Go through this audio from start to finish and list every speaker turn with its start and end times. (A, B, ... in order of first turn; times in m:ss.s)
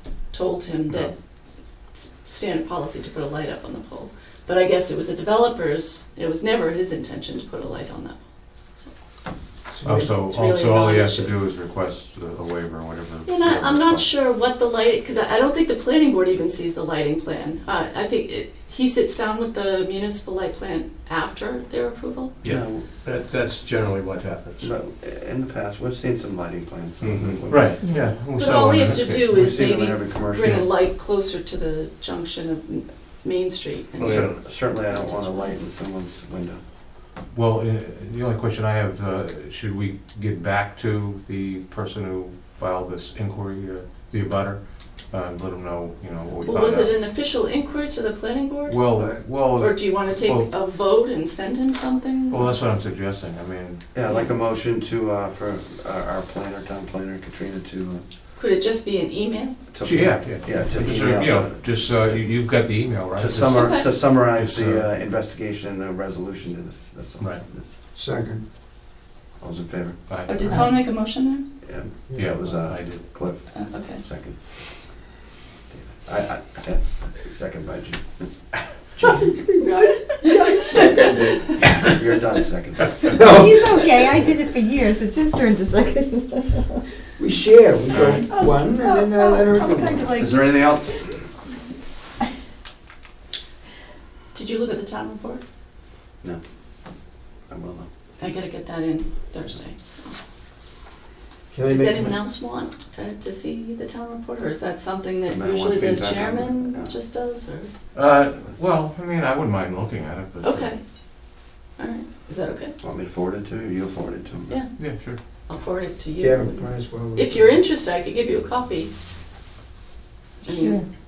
0:00.3-0:01.2 A
0:01.9-0:08.9 A
0:09.7-0:10.2 B
0:09.8-0:14.1 C
0:10.2-0:11.3 A
0:13.2-0:22.4 A
0:22.4-0:24.7 D
0:22.4-0:22.9 E
0:24.6-0:27.8 E
0:27.0-0:27.4 D
0:27.5-0:29.3 C
0:27.8-0:28.1 F
0:28.3-0:35.5 A
0:29.3-0:30.6 E
0:34.0-0:34.4 D
0:34.0-0:34.4 C
0:34.4-0:36.6 E
0:37.3-0:47.0 C
0:46.4-0:52.5 A
0:48.7-0:50.5 C
0:52.3-0:53.8 C
0:53.9-0:58.0 E
0:58.4-0:59.6 A
0:59.7-1:02.2 E
0:59.8-1:04.9 C
1:03.1-1:07.7 E
1:03.5-1:03.9 A
1:07.9-1:08.4 B
1:09.4-1:10.0 E
1:10.1-1:10.5 C
1:10.3-1:11.4 A
1:11.6-1:14.4 E
1:12.1-1:13.0 C
1:13.5-1:14.0 A
1:15.7-1:18.2 E
1:19.0-1:19.3 E
1:19.6-1:21.5 A
1:20.2-1:21.5 B
1:21.6-1:23.2 E
1:23.1-1:23.9 B
1:23.2-1:26.8 F
1:27.2-1:30.1 B
1:27.9-1:28.2 E
1:28.2-1:30.5 F
1:30.1-1:31.2 E
1:34.3-1:35.4 A
1:37.5-1:37.9 E
1:38.2-1:40.2 A
1:41.5-1:42.2 B
1:41.7-1:47.7 A
1:45.3-1:46.9 E
1:47.9-1:50.7 C
1:50.4-1:50.8 A
1:51.8-1:52.8 A
1:52.8-1:54.6 E
1:54.5-1:58.9 A
1:54.8-1:55.2 C
1:56.2-1:57.6 B
2:00.4-2:00.8 F
2:00.4-2:00.8 A